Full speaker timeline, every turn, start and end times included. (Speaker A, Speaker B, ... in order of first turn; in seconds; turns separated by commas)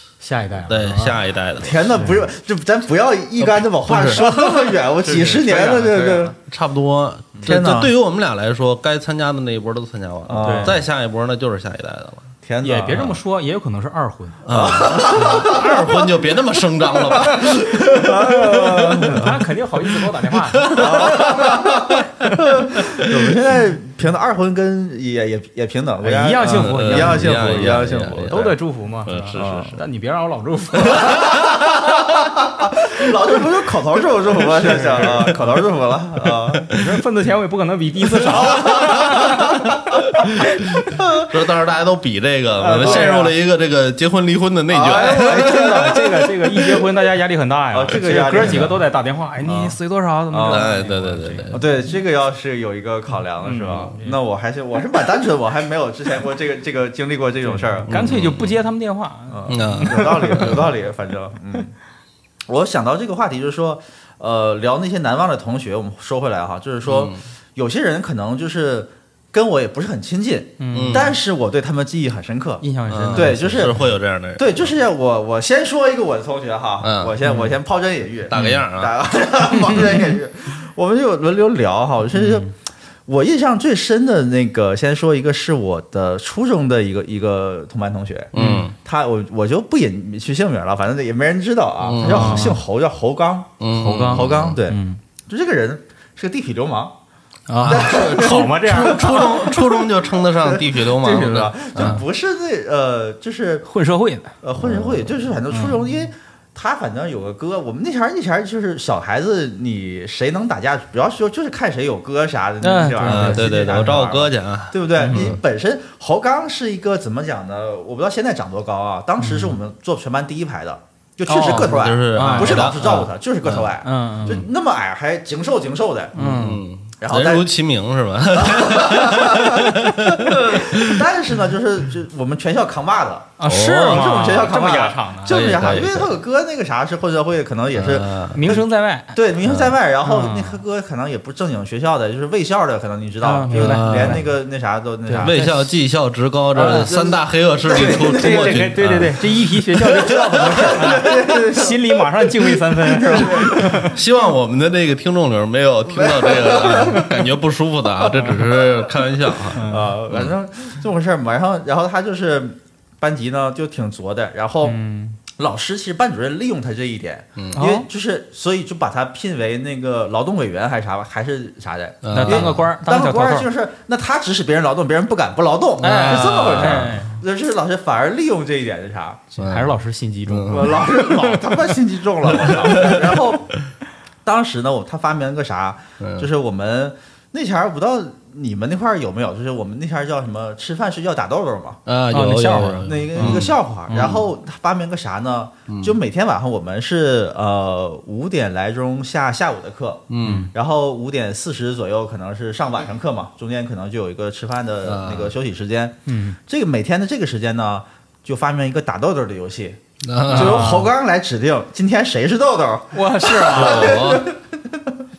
Speaker A: 0.2-1.2, Speaker B: 0.7-2.0, Speaker C: 1.6-6.3, Speaker A: 1.9-2.3, Speaker B: 3.6-4.3, Speaker A: 3.9-6.4, Speaker B: 6.5-12.3, Speaker C: 7.5-7.9, Speaker C: 10.3-10.8, Speaker A: 10.4-10.8, Speaker C: 12.4-13.1, Speaker A: 12.6-15.6, Speaker B: 14.4-19.3, Speaker C: 14.5-16.0, Speaker C: 17.2-19.4, Speaker A: 17.2-22.4, Speaker B: 20.5-22.1, Speaker C: 20.7-28.5, Speaker B: 22.8-23.1, Speaker A: 26.0-32.1, Speaker B: 26.4-29.8, Speaker C: 29.3-29.8, Speaker B: 30.9-31.5, Speaker C: 31.1-36.7, Speaker A: 34.4-35.4, Speaker B: 35.0-35.3, Speaker B: 36.5-36.8, Speaker A: 36.7-40.6, Speaker C: 38.4-39.7, Speaker C: 40.9-41.3, Speaker B: 41.2-46.0, Speaker A: 42.6-43.3, Speaker C: 42.8-43.2, Speaker C: 44.7-46.1, Speaker A: 44.8-51.6, Speaker C: 47.7-48.8, Speaker B: 48.4-48.7, Speaker C: 49.5-49.7, Speaker C: 50.3-50.7, Speaker B: 50.5-51.6, Speaker C: 51.5-57.9, Speaker A: 53.4-54.2, Speaker A: 57.5-60.6, Speaker B: 57.9-58.5, Speaker C: 59.3-61.7, Speaker B: 59.5-60.7, Speaker C: 62.5-73.8, Speaker B: 66.8-67.2, Speaker A: 70.6-71.1, Speaker B: 70.7-71.1, Speaker A: 72.6-73.8, Speaker B: 72.9-74.7, Speaker C: 74.4-82.5, Speaker B: 76.8-77.2, Speaker A: 77.2-77.5, Speaker B: 78.3-78.9, Speaker A: 78.3-78.6, Speaker A: 79.5-80.1, Speaker A: 82.1-82.5, Speaker C: 83.1-93.5, Speaker B: 88.3-88.8, Speaker A: 88.3-88.7, Speaker B: 91.8-92.6, Speaker A: 92.0-92.6, Speaker B: 93.6-94.6, Speaker A: 93.7-95.0, Speaker C: 94.1-97.0, Speaker A: 97.5-99.5, Speaker B: 97.6-102.0, Speaker C: 97.7-103.7, Speaker A: 103.7-104.3, Speaker C: 104.4-126.1, Speaker B: 104.6-105.2, Speaker A: 105.5-105.8, Speaker A: 112.6-113.5, Speaker B: 113.0-115.4, Speaker A: 115.0-115.3, Speaker A: 119.2-119.6, Speaker A: 121.3-123.0, Speaker B: 121.4-123.7, Speaker A: 123.8-124.4, Speaker A: 126.2-126.6, Speaker B: 126.2-131.1, Speaker C: 127.0-127.5, Speaker C: 128.3-145.5, Speaker A: 133.4-135.4, Speaker B: 133.4-134.2, Speaker B: 135.3-136.1, Speaker B: 137.7-138.4, Speaker A: 138.3-139.2, Speaker B: 139.4-139.8, Speaker A: 140.0-140.6, Speaker A: 143.2-144.3, Speaker B: 143.5-144.2, Speaker A: 145.1-145.5, Speaker B: 145.2-150.8, Speaker A: 146.6-147.0, Speaker C: 146.6-148.7, Speaker A: 147.8-154.0, Speaker C: 150.0-153.9, Speaker B: 153.2-160.3, Speaker C: 155.9-157.1, Speaker C: 158.1-158.6, Speaker A: 159.5-159.9, Speaker C: 159.6-164.8, Speaker A: 164.6-165.2, Speaker C: 165.3-179.3, Speaker A: 167.6-167.9, Speaker B: 172.0-172.7, Speaker A: 172.1-173.5, Speaker B: 175.8-177.1, Speaker A: 175.8-177.2, Speaker A: 179.3-181.5, Speaker B: 179.4-180.8, Speaker C: 180.5-183.5, Speaker B: 182.4-183.1, Speaker C: 184.2-191.8, Speaker B: 186.0-186.3, Speaker B: 191.9-194.3, Speaker A: 192.1-193.5, Speaker C: 192.8-215.0, Speaker B: 195.7-196.0, Speaker B: 200.1-200.5, Speaker A: 200.2-200.5, Speaker B: 204.8-205.3, Speaker A: 206.1-206.4, Speaker B: 210.0-210.8, Speaker A: 210.3-210.9, Speaker A: 212.9-214.0, Speaker B: 213.5-214.3